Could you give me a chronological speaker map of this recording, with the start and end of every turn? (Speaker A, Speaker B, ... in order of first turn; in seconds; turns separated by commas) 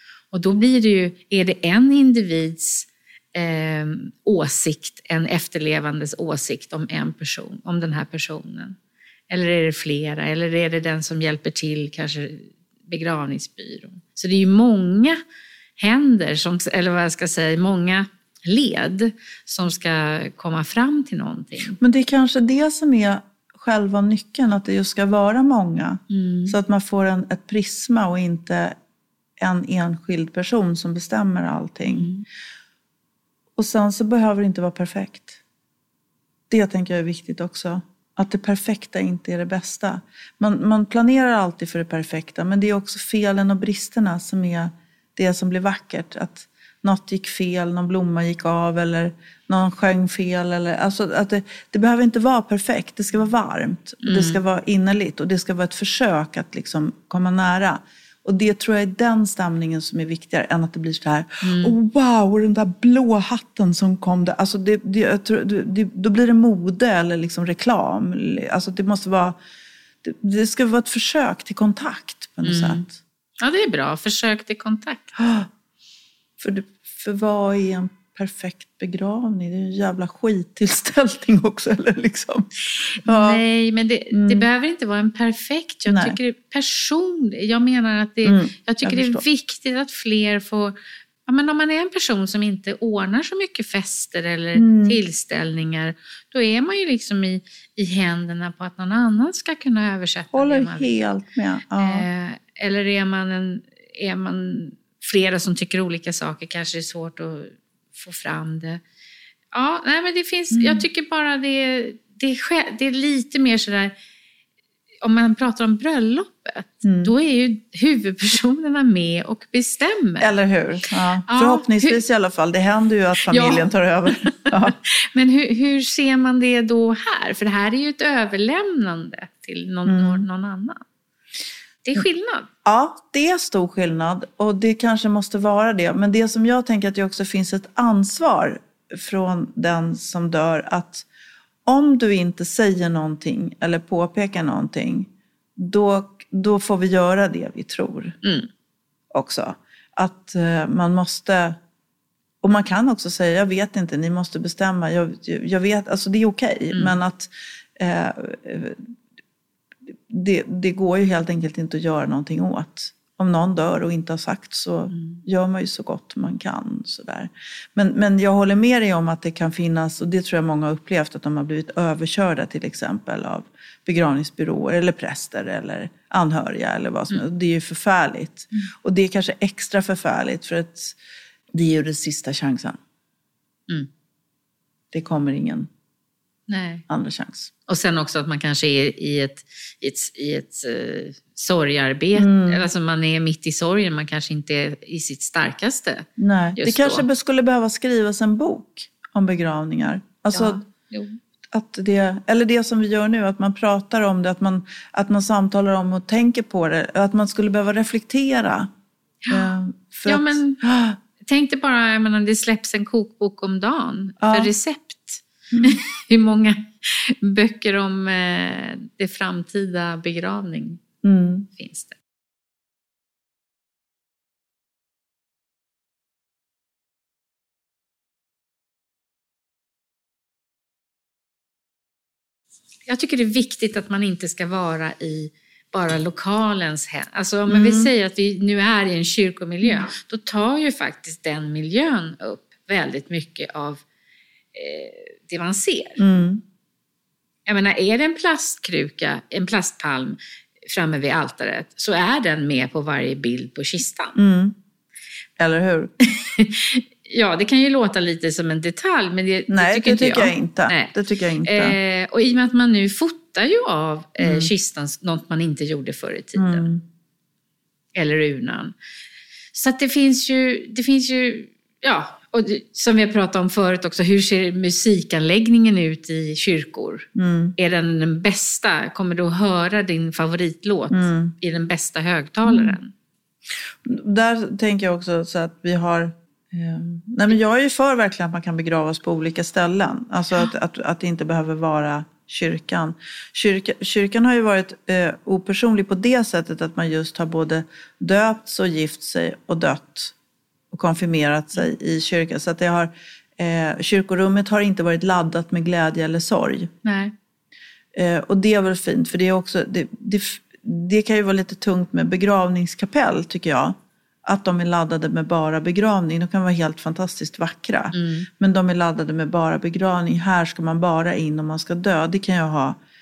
Speaker A: 0.3-8.8, Speaker A: 9.3-15.2, Speaker A: 15.8-21.8, Speaker B: 21.8-28.8, Speaker A: 26.1-26.6, Speaker B: 29.4-32.1, Speaker A: 31.9-32.2, Speaker B: 33.6-35.4, Speaker B: 36.5-69.4, Speaker A: 54.0-54.4, Speaker A: 61.4-61.8, Speaker B: 70.0-73.0, Speaker A: 72.4-72.8, Speaker A: 73.4-75.2, Speaker B: 75.2-75.5, Speaker B: 76.4-83.4, Speaker A: 83.0-90.8, Speaker B: 84.1-84.5, Speaker B: 85.9-86.2, Speaker B: 88.2-89.2, Speaker A: 91.3-101.0, Speaker B: 94.5-95.0, Speaker B: 100.3-102.1, Speaker A: 101.8-108.8, Speaker A: 109.5-113.9, Speaker B: 110.5-110.8, Speaker A: 115.0-120.3, Speaker B: 116.8-117.1, Speaker B: 120.2-124.8, Speaker A: 121.3-122.0, Speaker A: 123.3-123.7, Speaker A: 124.3-130.8, Speaker B: 129.9-130.3, Speaker A: 131.8-132.5, Speaker B: 132.6-141.1, Speaker B: 141.7-148.2, Speaker A: 148.2-148.5, Speaker B: 149.1-151.6, Speaker B: 152.4-158.8, Speaker B: 159.9-181.0, Speaker A: 164.9-165.2, Speaker B: 181.5-182.8, Speaker B: 184.9-185.7, Speaker A: 186.5-186.8, Speaker B: 186.9-187.5, Speaker A: 187.7-197.0, Speaker B: 192.2-192.7, Speaker B: 196.2-200.6, Speaker A: 200.3-201.2, Speaker B: 201.5-208.7, Speaker B: 209.3-211.0, Speaker A: 210.1-210.6, Speaker A: 211.2-220.8, Speaker B: 214.2-214.5, Speaker B: 221.0-221.5, Speaker A: 221.6-221.9, Speaker A: 232.9-243.8, Speaker B: 237.5-237.9, Speaker A: 244.5-246.0, Speaker B: 246.0-246.4, Speaker A: 247.4-254.2, Speaker B: 254.2-254.6, Speaker B: 255.4-255.9, Speaker A: 256.1-266.7, Speaker B: 259.5-261.8, Speaker B: 264.2-264.5, Speaker B: 266.4-266.8, Speaker A: 267.9-268.7, Speaker A: 269.5-282.9, Speaker B: 277.1-277.6, Speaker B: 280.9-281.3, Speaker B: 282.4-282.8, Speaker B: 283.8-300.1, Speaker B: 300.7-306.7, Speaker A: 306.8-307.1, Speaker B: 307.9-322.8, Speaker A: 317.9-318.3